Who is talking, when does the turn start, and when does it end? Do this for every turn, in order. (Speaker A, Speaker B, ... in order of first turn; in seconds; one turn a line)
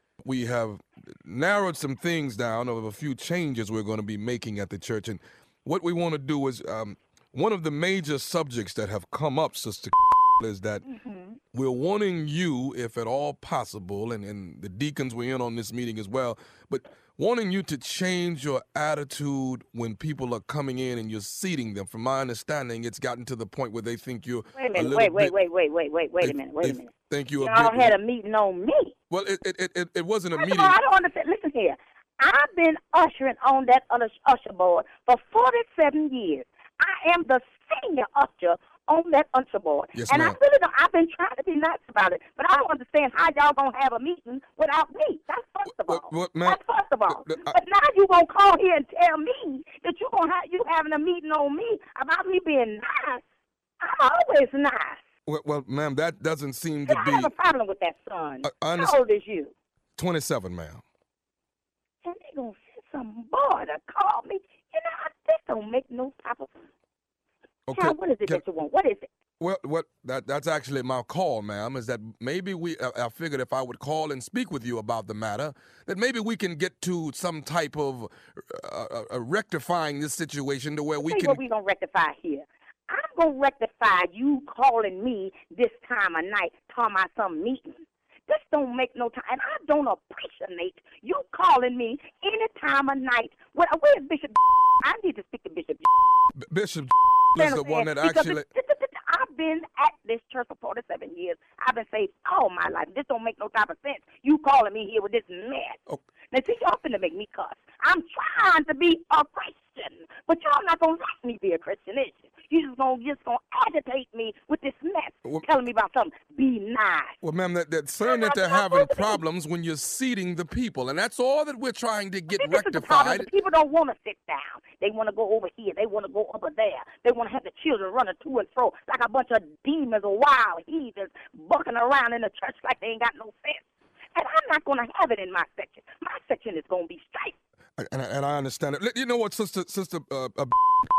Speaker A: 0.2-10.8
Speaker B: 10.8-11.4
Speaker A: 11.5-25.3
Speaker B: 24.6-28.9
Speaker A: 26.2-27.9
Speaker A: 29.1-30.8
Speaker B: 30.3-53.2
Speaker A: 39.9-40.4
Speaker A: 45.9-47.5
Speaker B: 53.8-55.0
Speaker A: 55.2-57.3
Speaker B: 56.9-59.5
Speaker A: 58.4-59.0
Speaker A: 60.0-60.8
Speaker B: 62.0-66.6
Speaker A: 67.7-68.4
Speaker B: 67.7-69.0
Speaker A: 69.4-81.4
Speaker B: 81.0-95.9
Speaker A: 96.5-98.4
Speaker B: 97.4-105.8
Speaker B: 106.3-117.1
Speaker A: 115.2-115.5
Speaker A: 117.2-123.3
Speaker B: 118.0-119.2
Speaker B: 122.3-137.3
Speaker A: 137.8-140.5